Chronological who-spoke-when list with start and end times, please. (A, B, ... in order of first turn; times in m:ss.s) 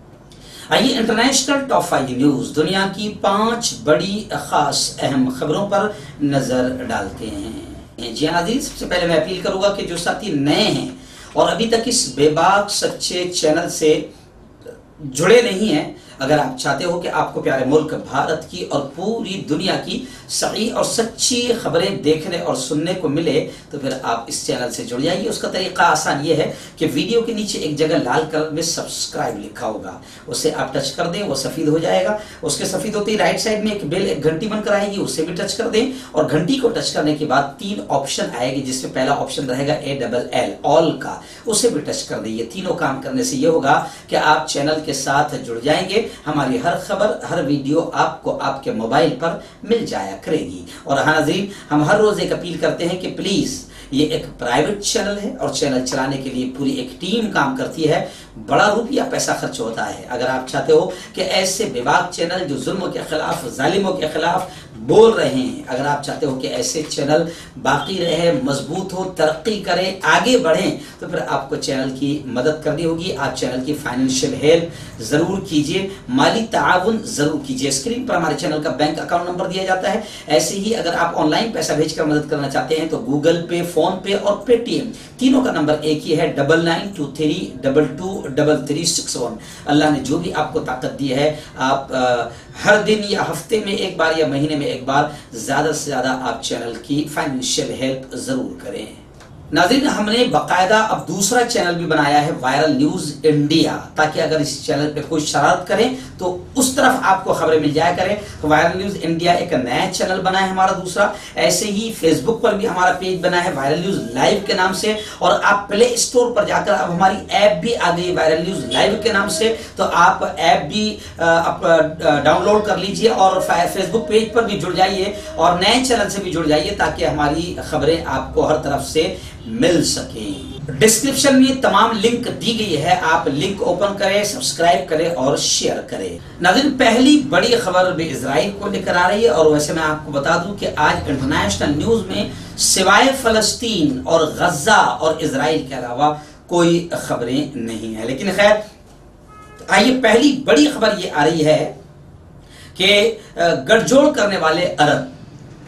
0:00.7-0:14.0 A
0:15.0-1:39.0 A
1:39.5-2:28.6 A
2:29.7-2:31.7 A
2:32.8-2:35.1 A